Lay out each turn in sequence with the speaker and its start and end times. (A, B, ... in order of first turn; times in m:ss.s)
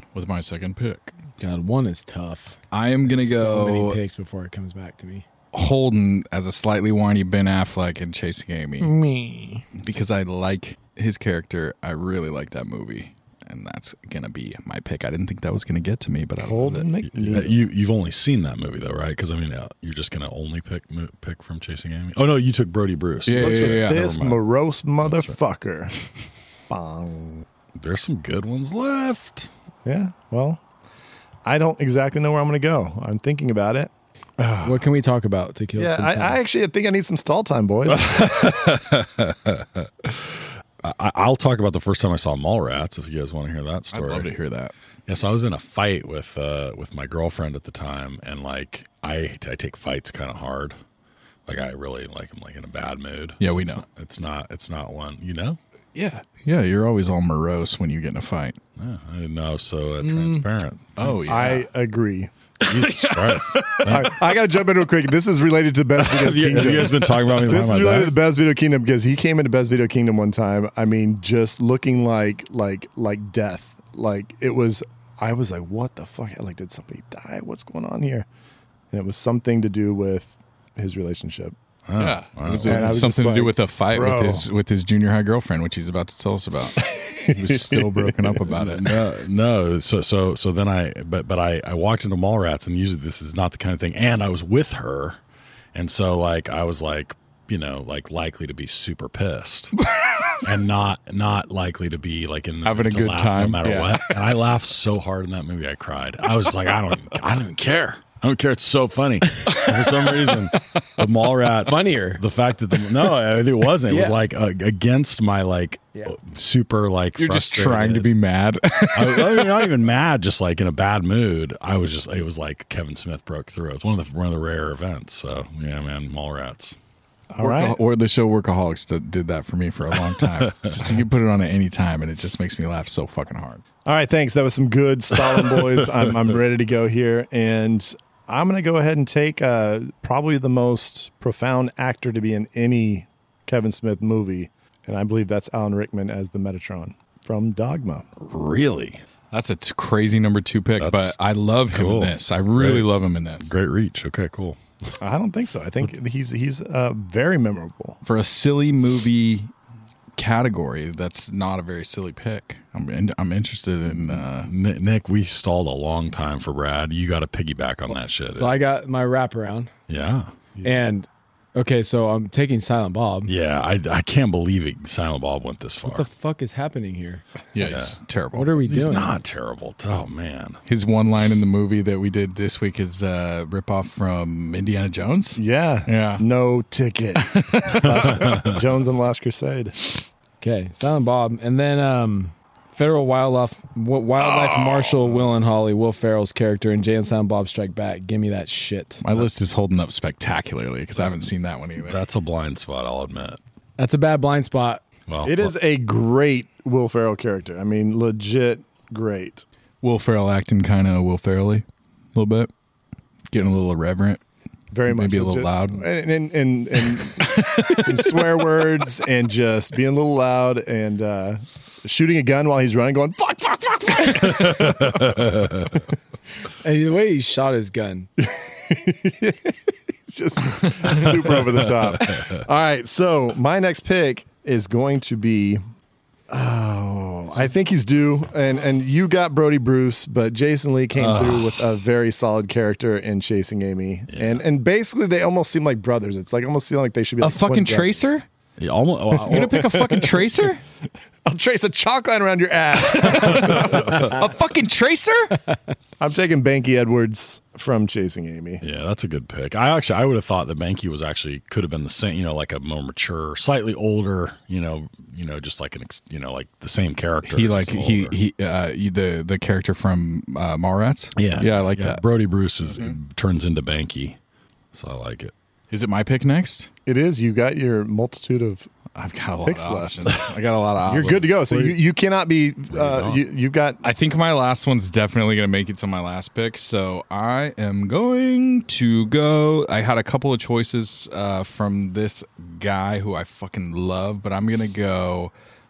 0:00.1-0:01.1 A
0:01.4-0:05.2 B
0:02.7-0:04.0 A
0:05.5-0:08.9 A
0:08.8-0:09.6 B
0:09.8-0:16.9 A
0:16.4-0:17.6 C
0:17.1-0:24.4 D
0:23.2-0:24.0 A
0:23.3-0:26.0 C
0:25.0-0:25.4 D
0:26.7-0:27.4 C
0:27.7-0:29.5 D
0:29.8-0:30.6 C
0:31.4-0:34.9 C
0:34.6-0:36.4 B
0:35.8-0:38.3 C
0:37.9-0:44.3 D
0:43.9-0:44.7 A
0:45.1-0:50.8 D
0:51.4-0:55.6 D
0:53.4-0:53.8 A
0:55.9-0:58.6 A
0:58.8-1:01.6 D
1:00.0-1:00.5 B
1:01.0-1:01.7 A
1:01.3-1:02.3 C
1:02.6-1:04.3 D
1:02.6-1:04.2 A
1:03.9-1:18.2 C
1:06.0-1:08.2 D
1:18.9-1:21.5 C
1:21.8-1:23.1 D
1:22.0-1:28.9 A
1:22.6-1:24.5 C
1:26.9-1:28.3 C
1:28.5-1:35.2 D
1:35.7-1:39.7 D
1:40.4-1:58.1 D
1:42.6-1:44.2 A
1:50.5-1:50.9 A
1:51.6-1:52.2 B
1:53.9-1:54.2 B
1:57.2-1:59.7 A
1:58.9-2:06.8 D
2:07.3-2:07.8 C
2:07.4-2:13.6 A
2:09.9-2:11.0 D
2:13.8-2:28.0 C
2:15.4-2:16.1 D
2:28.2-2:29.0 D
2:29.3-2:33.5 A
2:30.8-2:31.2 D
2:31.7-2:32.9 D
2:33.4-2:35.0 D
2:35.0-2:38.0 C
2:38.0-2:39.5 A
2:40.2-2:44.5 A
2:43.9-2:48.6 D
2:48.3-2:49.7 B
2:49.9-2:50.4 D
2:50.6-2:53.3 B
2:53.2-2:56.1 D
2:55.8-2:57.2 B
2:57.5-2:58.6 A
2:57.6-2:58.0 D
2:58.3-2:59.1 B
2:58.6-3:00.6 D
3:00.6-3:06.2 A
3:05.4-3:10.0 C
3:07.2-3:08.3 A
3:07.9-3:08.6 D
3:10.4-3:19.0 B
3:19.0-3:22.0 A
3:21.8-3:23.4 D
3:23.8-3:24.8 B
3:25.1-3:25.5 D
3:25.2-3:29.4 C
3:29.8-3:32.5 A
3:33.3-3:34.2 A
3:34.7-3:45.0 C
3:34.9-3:35.8 A
3:36.9-3:38.2 A
3:44.2-3:45.7 D
3:46.6-3:48.1 B
3:48.2-3:55.6 C
3:52.0-3:52.4 D
3:56.3-4:08.2 C
4:00.9-4:01.6 D
4:04.1-4:04.4 D
4:07.2-4:08.2 A
4:08.6-4:09.8 D
4:09.2-4:10.6 A
4:09.3-4:10.2 C
4:11.2-4:14.1 C
4:12.9-4:15.4 A
4:13.1-4:14.2 D
4:16.0-4:18.6 C
4:18.6-4:28.2 D
4:27.2-4:32.0 A
4:31.1-4:34.2 D
4:32.6-4:33.0 A
4:34.7-4:35.3 D
4:35.7-4:36.7 A
4:36.8-4:38.7 C
4:39.0-4:41.4 A
4:39.4-4:40.1 C
4:40.9-4:43.8 C
4:41.5-4:41.8 D
4:42.7-4:43.2 D
4:43.8-4:55.3 A